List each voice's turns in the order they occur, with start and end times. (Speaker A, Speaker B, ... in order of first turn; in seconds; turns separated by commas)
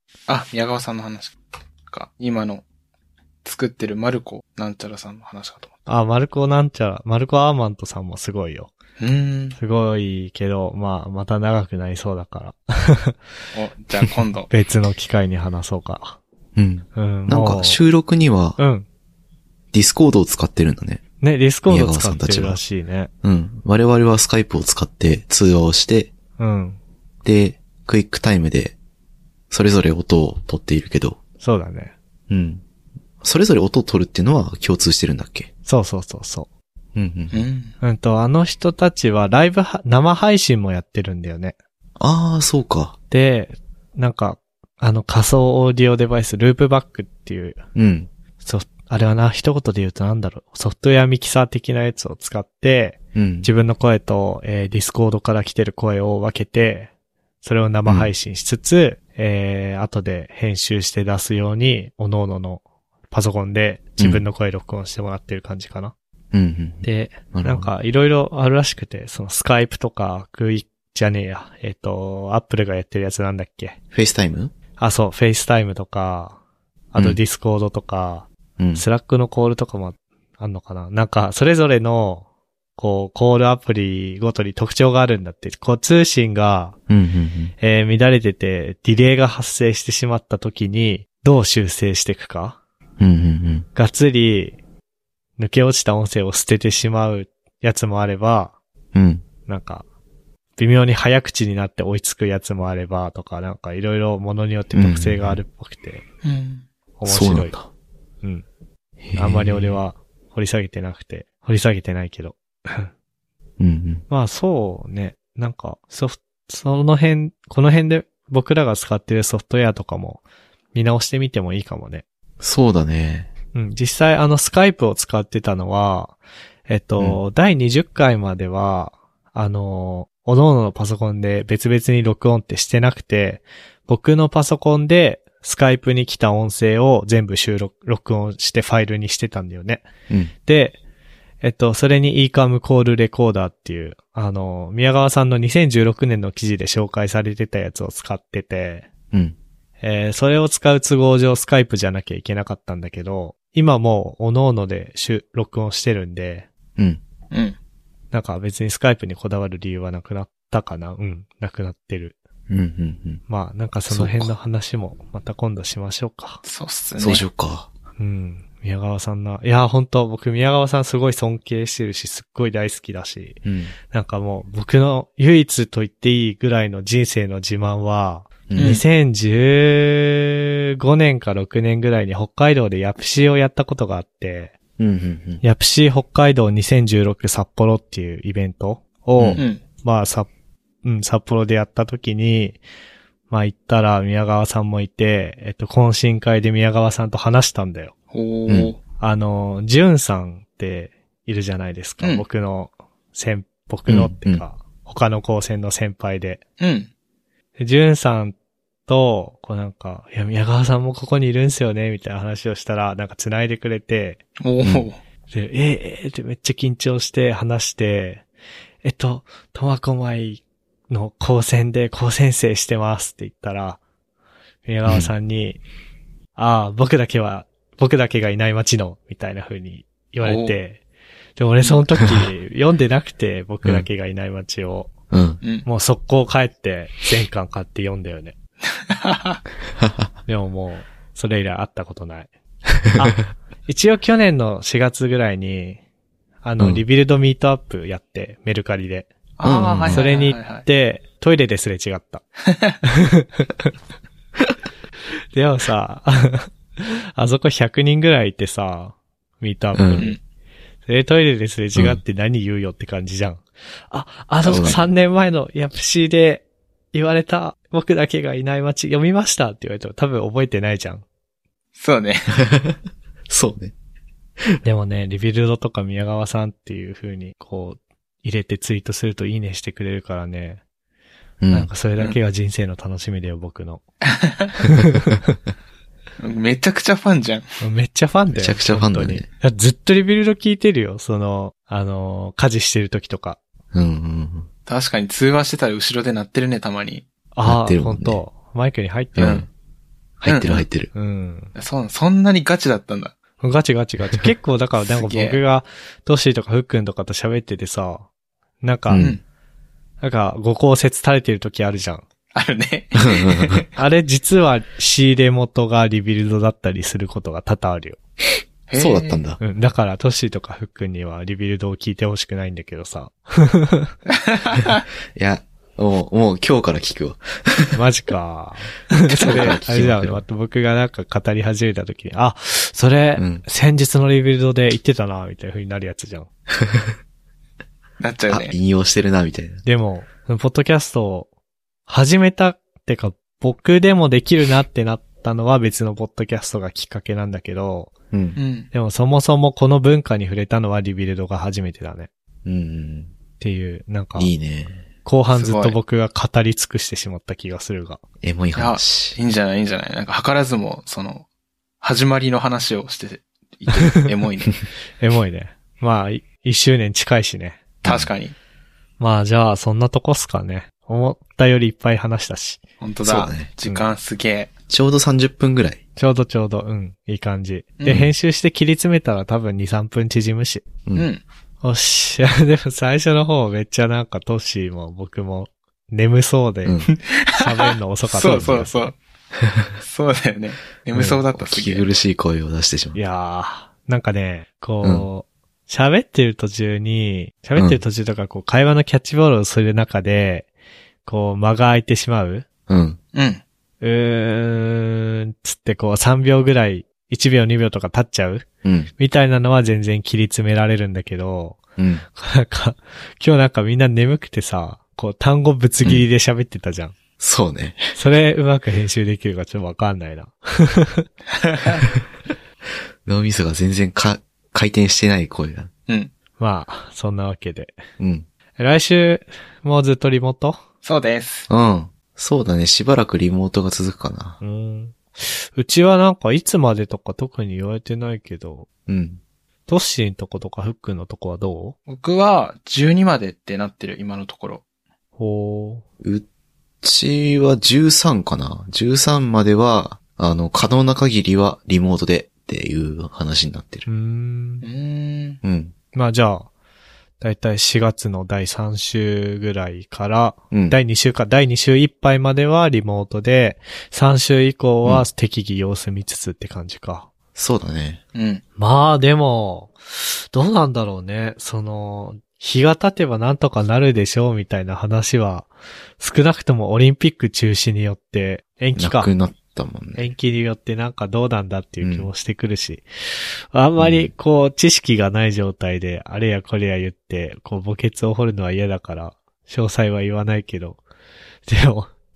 Speaker A: 0.3-1.4, Speaker A: 1.9-2.6, Speaker A: 3.4-5.7, Speaker B: 5.9-8.7, Speaker A: 9.0-9.6, Speaker B: 9.6-13.2, Speaker A: 13.5-14.5, Speaker B: 14.5-16.2, Speaker C: 16.6-18.6, Speaker B: 16.9-17.8, Speaker B: 18.6-18.9, Speaker C: 19.7-21.0, Speaker B: 21.2-23.1, Speaker C: 21.7-22.6, Speaker C: 23.2-26.1, Speaker B: 26.4-26.8, Speaker C: 27.2-28.8, Speaker C: 29.5-31.2, Speaker B: 31.4-31.9, Speaker C: 32.3-32.6, Speaker C: 33.2-35.5, Speaker B: 35.7-36.5, Speaker C: 37.0-37.4, Speaker A: 37.3-37.7, Speaker B: 37.8-41.6, Speaker C: 42.0-43.0, Speaker B: 43.1-47.6, Speaker C: 47.8-48.1, Speaker B: 48.4-56.9, Speaker C: 53.1-53.5, Speaker B: 57.4-65.9, Speaker C: 57.9-58.1, Speaker C: 64.0-64.2, Speaker C: 66.3-67.7, Speaker B: 66.8-73.8, Speaker C: 73.9-74.5, Speaker B: 74.8-76.4, Speaker B: 76.9-82.3, Speaker C: 78.6-78.8, Speaker B: 82.8-86.8, Speaker C: 86.9-87.5, Speaker B: 87.6-92.6, Speaker C: 93.0-93.7, Speaker B: 93.8-94.6, Speaker B: 95.4-98.5, Speaker C: 98.9-99.2, Speaker B: 99.5-99.8, Speaker B: 100.6-106.0, Speaker C: 104.7-105.4, Speaker A: 106.2-106.7, Speaker B: 107.0-107.5, Speaker C: 107.1-107.7, Speaker C: 109.0-109.8, Speaker B: 109.2-112.9, Speaker C: 113.6-114.0, Speaker B: 114.1-120.2, Speaker B: 120.7-122.0, Speaker C: 122.4-123.3, Speaker B: 123.5-126.2, Speaker B: 126.7-139.9, Speaker B: 140.4-140.8, Speaker B: 141.4-148.9, Speaker B: 149.8-156.5, Speaker B: 158.1-162.2, Speaker C: 162.5-163.2, Speaker B: 163.3-166.4, Speaker C: 163.9-164.3, Speaker A: 166.4-167.2, Speaker C: 167.0-167.7, Speaker B: 168.0-184.6, Speaker C: 173.4-173.8, Speaker C: 178.5-178.8, Speaker A: 178.6-178.8, Speaker C: 184.8-185.4, Speaker B: 185.4-190.3, Speaker C: 189.2-189.4, Speaker B: 190.8-192.6, Speaker B: 193.3-197.9, Speaker A: 198.1-198.8, Speaker C: 198.5-198.7, Speaker B: 199.0-206.4, Speaker C: 203.9-204.4, Speaker A: 206.6-206.9, Speaker B: 207.6-208.4, Speaker B: 208.9-214.2, Speaker A: 214.4-215.0, Speaker B: 215.3-218.2, Speaker B: 218.8-223.8, Speaker B: 224.7-225.6, Speaker C: 224.9-225.1, Speaker B: 226.4-230.8, Speaker A: 230.2-230.6, Speaker B: 231.4-234.9, Speaker C: 235.1-235.4, Speaker B: 235.7-238.3, Speaker A: 238.9-239.4, Speaker C: 239.8-240.1, Speaker B: 240.3-242.3, Speaker B: 242.9-245.8, Speaker B: 246.4-249.1, Speaker A: 249.4-250.7, Speaker C: 249.4-250.0, Speaker B: 249.9-252.2, Speaker A: 252.5-252.7, Speaker B: 252.8-253.7, Speaker B: 255.3-260.2, Speaker C: 259.8-260.1, Speaker B: 260.9-271.0, Speaker A: 264.4-264.8, Speaker C: 264.5-264.8, Speaker A: 271.8-272.4, Speaker C: 272.4-273.7, Speaker B: 274.6-280.6, Speaker C: 281.4-281.7, Speaker B: 281.5-283.8, Speaker A: 284.2-284.6, Speaker B: 284.8-285.2, Speaker A: 286.2-287.5, Speaker B: 287.6-293.4, Speaker C: 288.3-289.3, Speaker C: 293.7-294.5, Speaker A: 294.7-297.1, Speaker B: 297.4-299.4, Speaker C: 297.4-298.2, Speaker C: 299.2-299.5, Speaker A: 299.2-299.4, Speaker C: 300.2-300.9, Speaker A: 300.3-300.6, Speaker B: 300.9-301.5, Speaker A: 301.6-303.1, Speaker B: 303.4-308.1, Speaker A: 304.8-305.4, Speaker B: 308.6-309.2, Speaker C: 308.9-309.1, Speaker B: 310.0-312.1, Speaker A: 312.3-313.8, Speaker C: 313.1-313.6, Speaker B: 313.8-318.0, Speaker A: 318.7-319.2, Speaker C: 318.7-319.4, Speaker B: 319.4-323.9, Speaker A: 324.3-324.8, Speaker C: 325.1-327.8, Speaker B: 327.8-336.3, Speaker C: 329.2-330.2, Speaker A: 329.2-329.6, Speaker C: 333.2-333.4, Speaker C: 336.6-336.9, Speaker A: 338.0-338.6, Speaker C: 338.3-339.6, Speaker B: 339.6-341.3, Speaker B: 341.9-347.9, Speaker C: 348.1-348.4, Speaker A: 348.4-348.7, Speaker B: 348.7-352.1, Speaker C: 352.4-353.1, Speaker B: 353.4-354.3, Speaker C: 354.2-354.9, Speaker B: 355.1-358.0, Speaker A: 355.3-355.8, Speaker C: 358.2-359.2, Speaker A: 358.6-361.3, Speaker A: 361.8-364.6, Speaker B: 365.0-367.6, Speaker C: 367.8-368.1, Speaker A: 367.8-368.4, Speaker B: 369.0-372.6, Speaker A: 372.8-374.5, Speaker C: 373.0-373.5, Speaker C: 374.7-375.8, Speaker B: 376.0-380.7, Speaker A: 377.8-378.1, Speaker A: 380.9-381.2, Speaker B: 381.6-388.8, Speaker A: 386.9-389.0, Speaker C: 389.4-389.7, Speaker A: 389.8-391.9, Speaker C: 391.0-393.0, Speaker B: 392.9-400.5, Speaker C: 397.6-397.8, Speaker B: 401.1-402.5, Speaker C: 402.7-403.0, Speaker A: 403.1-403.4, Speaker B: 403.8-411.6, Speaker C: 408.6-408.9, Speaker C: 411.8-412.1, Speaker B: 412.1-416.9, Speaker C: 417.2-417.8, Speaker B: 417.9-421.1, Speaker A: 421.4-421.8, Speaker C: 423.1-425.7, Speaker B: 426.4-427.8, Speaker C: 428.0-428.3, Speaker B: 428.6-430.6, Speaker A: 430.8-431.5, Speaker C: 431.5-434.4, Speaker B: 434.4-438.7, Speaker C: 438.9-439.2, Speaker B: 439.7-441.8, Speaker A: 441.9-444.6, Speaker B: 445.2-445.8, Speaker C: 446.0-446.3, Speaker C: 446.8-453.9, Speaker B: 453.9-454.6, Speaker A: 454.6-455.4, Speaker C: 455.4-455.7, Speaker B: 455.9-456.5, Speaker B: 457.2-467.1, Speaker C: 460.5-460.8, Speaker C: 467.4-468.0, Speaker A: 468.1-468.4, Speaker B: 468.6-479.1, Speaker C: 478.8-480.1, Speaker B: 480.0-490.8, Speaker C: 481.8-482.1, Speaker C: 483.8-484.1, Speaker B: 491.5-491.9